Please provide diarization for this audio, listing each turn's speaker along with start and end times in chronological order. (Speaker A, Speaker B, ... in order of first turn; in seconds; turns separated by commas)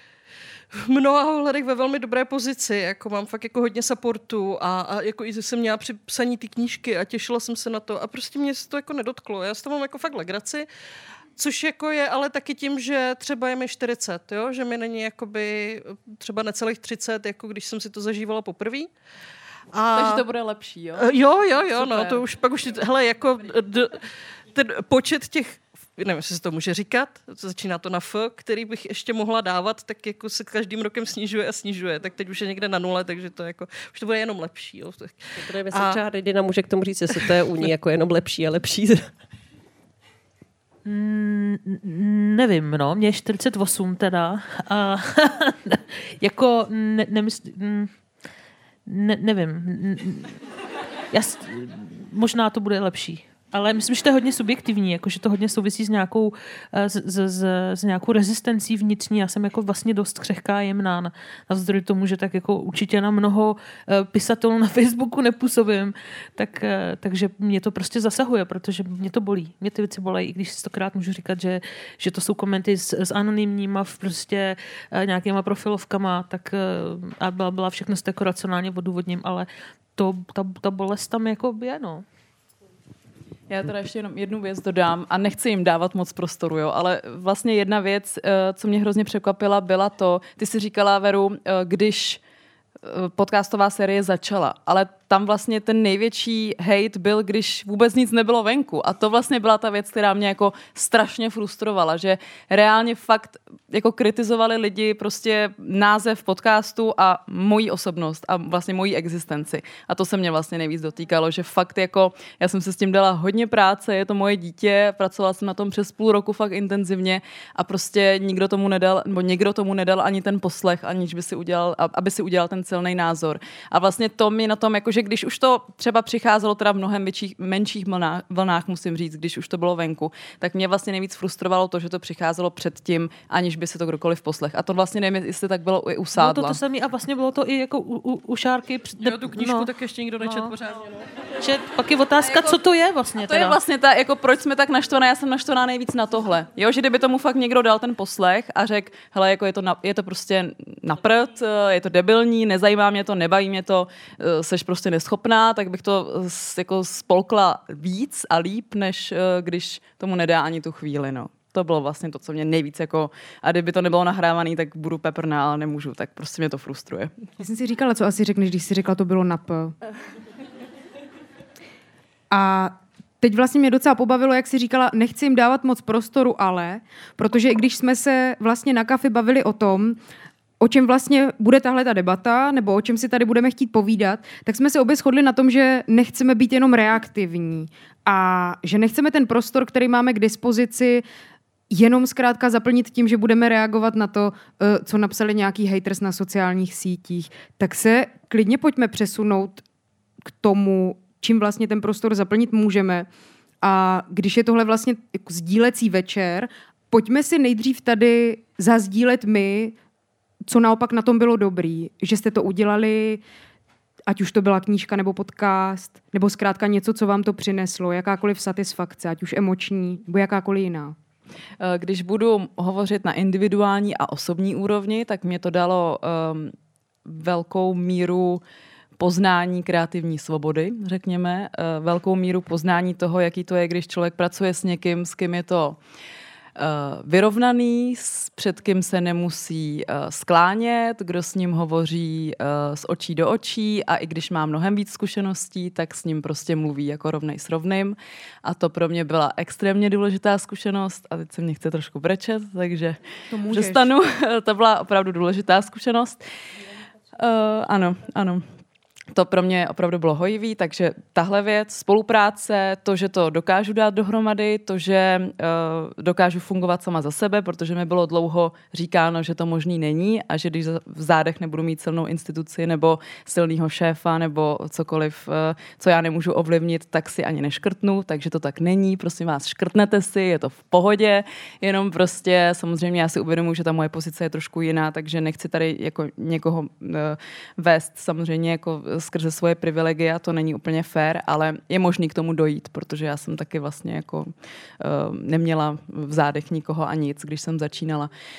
Speaker A: 0.7-10.7, Speaker A: 11.4-18.9, Speaker A: 19.7-20.2, Speaker B: 19.9-22.2, Speaker A: 21.0-36.0, Speaker C: 35.4-39.1, Speaker D: 40.9-47.9, Speaker D: 48.9-50.4, Speaker D: 51.1-82.0, Speaker B: 83.5-92.2, Speaker B: 92.8-136.6, Speaker D: 136.2-139.7, Speaker A: 139.0-140.9, Speaker D: 140.2-140.5, Speaker D: 141.4-143.6, Speaker B: 142.3-142.6, Speaker B: 143.2-167.1, Speaker E: 167.4-169.7, Speaker E: 172.3-180.0, Speaker E: 180.6-191.1, Speaker E: 191.7-199.6, Speaker E: 200.3-203.1, Speaker E: 203.6-209.8, Speaker E: 210.5-213.2, Speaker E: 214.1-221.0, Speaker B: 221.6-226.5, Speaker B: 227.1-228.4, Speaker B: 229.0-235.8, Speaker B: 236.6-256.2, Speaker E: 253.3-253.9, Speaker B: 257.2-258.4, Speaker B: 259.1-298.1